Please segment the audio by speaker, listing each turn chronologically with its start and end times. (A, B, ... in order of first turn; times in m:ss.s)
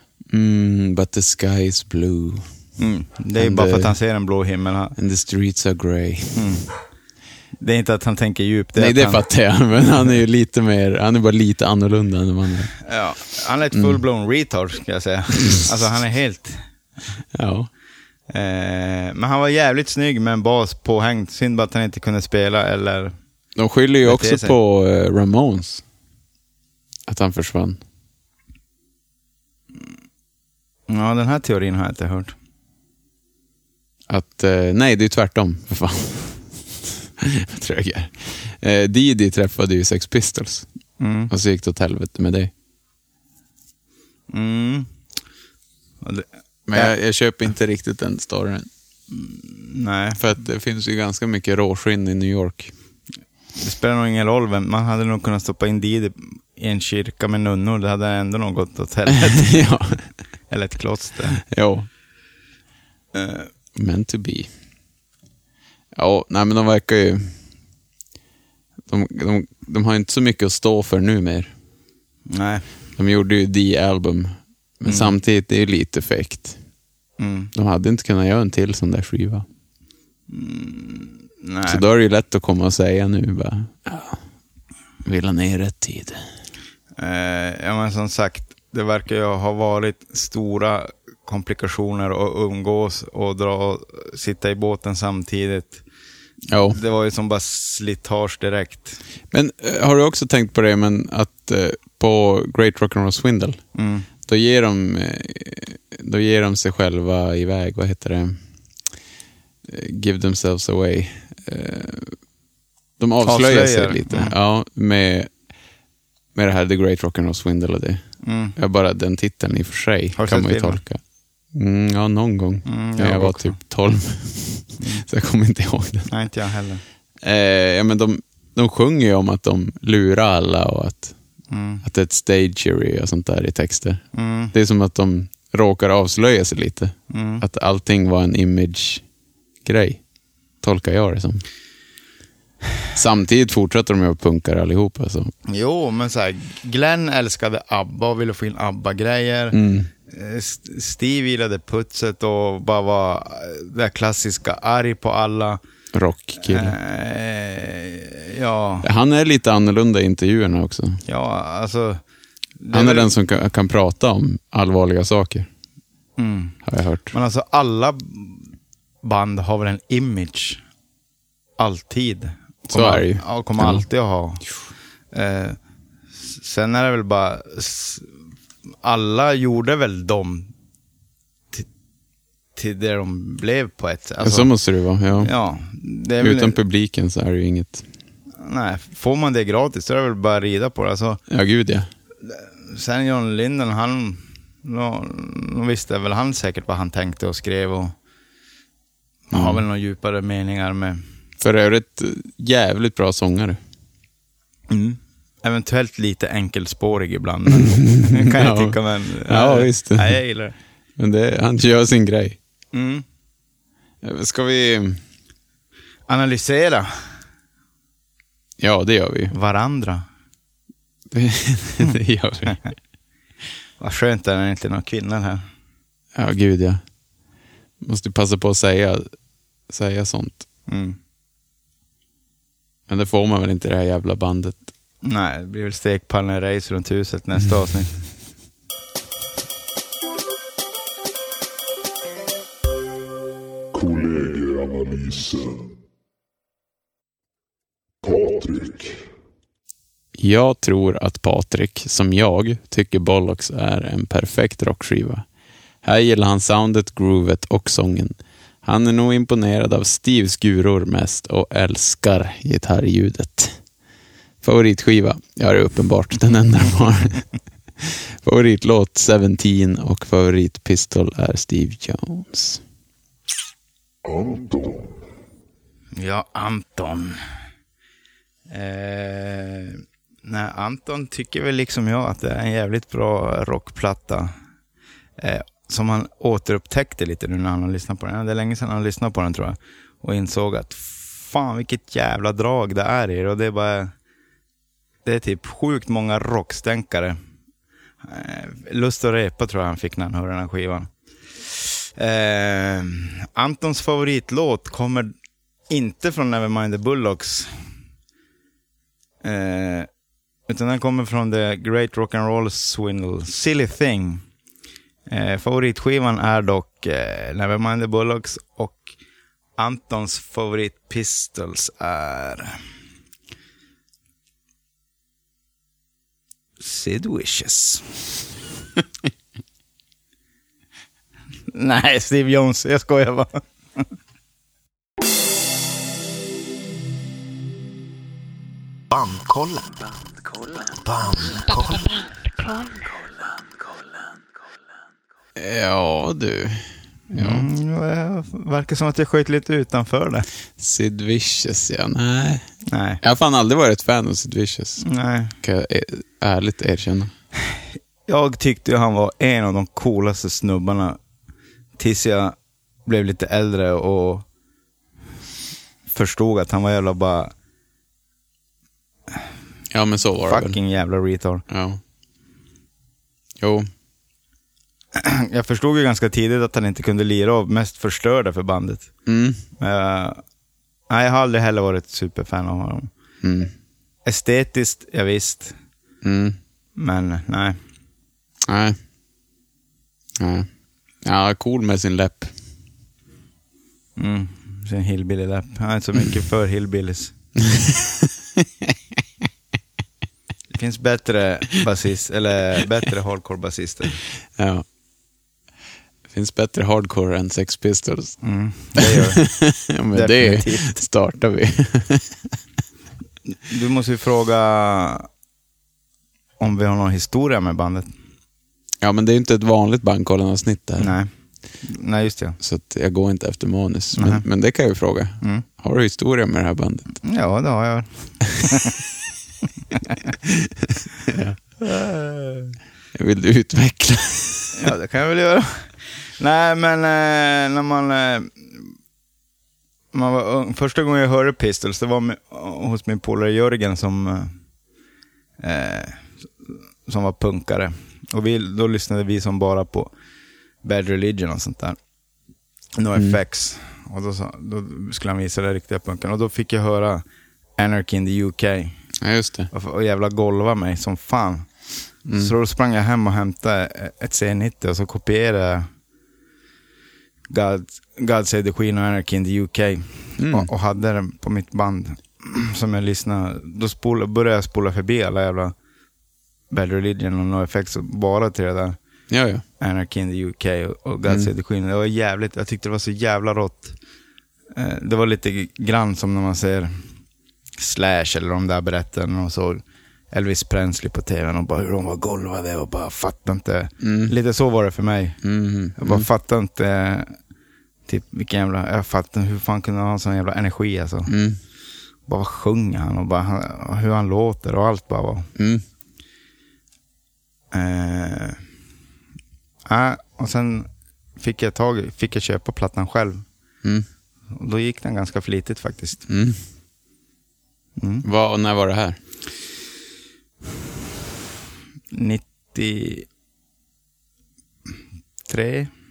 0:00.3-0:02.5 A
0:02.8-0:05.0 B
0:03.4-0:03.9 A
0:05.0-0:06.5 A
0:06.3-0:06.7 B
0:07.6-0:09.2 B
0:08.8-0:12.8 A
0:12.8-0:16.6 B
0:13.7-0:14.0 A
0:17.3-0:17.7 A
0:18.3-0:23.1 B
0:23.6-0:25.8 A
0:24.0-0:24.6 B
0:27.1-0:27.8 A
0:30.9-0:32.3 B
0:34.1-0:40.7 A
0:41.0-0:41.3 B
0:41.3-0:42.5 A
0:44.3-0:44.9 B
0:46.0-0:46.9 B
0:46.7-0:48.7 A
0:49.1-0:50.2 B
0:50.2-0:52.7 A
0:53.6-0:59.6 B
0:59.1-1:00.0 A
1:00.5-1:01.4 B
1:01.5-1:01.9 A
1:03.1-1:03.5 B
1:03.7-1:04.5 A
1:05.9-1:07.3 A
1:08.9-1:11.5 A
1:12.3-1:12.6 B
1:13.0-1:16.6 A
1:14.8-1:15.1 B
1:17.2-1:17.5 B
1:17.5-1:19.4 A
1:20.3-1:21.8 B
1:21.7-1:24.2 A
1:25.0-1:26.2 A
1:27.0-1:35.8 B
1:36.5-1:36.8 A
1:36.7-1:39.0 B
1:39.3-1:43.6 A
1:43.7-1:44.1 B
1:44.2-1:48.4 A
1:49.7-1:52.2 A
1:53.0-1:55.3 A
1:53.2-1:54.3 B
1:56.3-1:58.0 A
1:58.2-1:58.6 B
1:58.6-2:01.0 A
2:00.2-2:00.8 B
2:01.5-2:06.1 A
2:02.6-2:03.6 B
2:04.8-2:05.0 B
2:06.1-2:06.8 B
2:07.2-2:11.1 A
2:11.5-2:11.8 B
2:11.8-2:19.0 A
2:14.1-2:14.5 B
2:17.1-2:17.4 B
2:19.6-2:20.0 A
2:20.6-2:21.4 A
2:22.9-2:25.3 A
2:25.5-2:35.6 B
2:29.5-2:29.9 A
2:35.9-2:36.8 A
2:36.4-2:38.9 B
2:38.8-2:41.0 A
2:41.0-2:42.0 B
2:42.6-2:43.1 B
2:42.7-2:45.5 A
2:46.2-2:46.6 B
2:46.6-2:47.1 A
2:47.1-2:48.5 B
2:49.0-2:50.6 B
2:51.6-2:54.4 B
2:52.7-2:53.8 A
2:55.1-2:55.6 B
2:56.2-2:58.1 B
2:58.8-3:00.5 B
3:02.6-3:04.5 B
3:04.2-3:05.3 A
3:05.2-3:06.6 B
3:06.2-3:07.8 A
3:08.4-3:11.2 B
3:11.3-3:11.9 A
3:12.2-3:17.9 B
3:19.3-3:21.0 B
3:19.3-3:19.6 A
3:21.4-3:23.6 A
3:24.7-3:30.5 B
3:27.5-3:30.2 A
3:31.0-3:32.4 A
3:32.7-3:33.0 B
3:34.0-3:35.0 A
3:36.1-3:36.9 B
3:38.6-3:39.3 A
3:39.3-3:40.0 B
3:41.1-3:42.6 A
3:43.8-3:45.4 B
3:46.1-3:46.8 A
3:47.8-3:49.1 A
3:49.7-3:50.5 A
3:50.7-3:51.0 B
3:52.9-3:54.6 A
3:55.0-3:57.9 B
4:03.7-4:05.7 C
4:08.0-4:09.0 C
4:10.2-4:15.2 A
4:15.8-4:23.6 A
4:24.4-4:27.2 A
4:27.8-4:32.6 A
4:34.0-4:35.0 C
4:35.9-4:37.2 B
4:38.5-4:44.3 B
4:45.2-4:53.9 B
4:55.0-4:57.2 B
4:58.0-5:05.1 B
5:05.7-5:07.5 B
5:09.2-5:09.9 B
5:10.5-5:14.2 B
5:15.1-5:18.9 B
5:19.6-5:22.6 B
5:26.6-5:27.9 B
5:31.5-5:33.8 B
5:38.9-5:39.7 B
5:40.8-5:42.0 B
5:45.4-5:47.4 A
5:47.1-5:50.3 B
5:50.6-5:52.4 A
5:52.7-5:53.0 B
5:53.0-5:54.8 A
5:54.8-5:55.3 B
5:55.4-5:57.1 A
5:57.5-6:01.0 B
6:01.8-6:04.2 B
6:05.9-6:07.3 B
6:09.7-6:10.6 A
6:10.2-6:11.4 B
6:11.5-6:11.8 A
6:13.4-6:13.7 A
6:14.9-6:18.9 B
6:19.0-6:19.4 A
6:19.6-6:20.2 B
6:20.9-6:22.9 B
6:23.2-6:23.5 A
6:24.0-6:25.6 B
6:26.0-6:26.4 A
6:26.8-6:27.6 B
6:28.5-6:28.8 A
6:30.2-6:30.5 A
6:31.0-6:32.3 A
6:34.0-6:37.1 B
6:37.4-6:38.1 A
6:40.5-6:44.0 B
6:44.4-6:44.6 A
6:46.1-6:48.2 A
6:48.2-6:49.2 B
6:48.8-6:52.2 A
6:49.9-6:50.7 B
6:53.4-6:55.1 B
6:56.4-6:57.9 B
6:58.8-7:00.9 A
7:00.8-7:01.1 B
7:01.6-7:02.4 B
7:02.4-7:06.9 A
7:04.0-7:04.2 B
7:07.0-7:07.9 B
7:08.4-7:08.8 B
7:09.7-7:10.0 B
7:10.2-7:11.4 A
7:11.6-7:12.5 B
7:12.9-7:14.6 A
7:14.5-7:18.7 B
7:19.9-7:24.3 B
7:25.4-7:29.9 B
7:30.6-7:31.8 B
7:32.8-7:37.0 B
7:37.6-7:38.8 B
7:39.0-7:39.5 A
7:39.5-7:41.5 B
7:42.0-7:42.3 A
7:42.1-7:45.7 B
7:47.3-7:55.5 B
7:50.2-7:50.5 A
7:56.5-7:58.8 B
7:59.1-7:59.4 A
7:59.6-8:03.8 B
8:04.5-8:06.7 B
8:07.6-8:15.2 B
8:13.8-8:14.1 A
8:15.2-8:16.1 A
8:15.8-8:17.1 B
8:17.9-8:21.1 B
8:21.1-8:21.4 A
8:22.1-8:25.3 B
8:25.4-8:25.6 A
8:27.5-8:28.4 B
8:29.7-8:33.2 B
8:34.3-8:36.0 B
8:36.1-8:36.4 A
8:37.8-8:38.0 B
8:38.0-8:39.0 A
8:41.9-8:43.1 B
8:45.3-8:45.7 B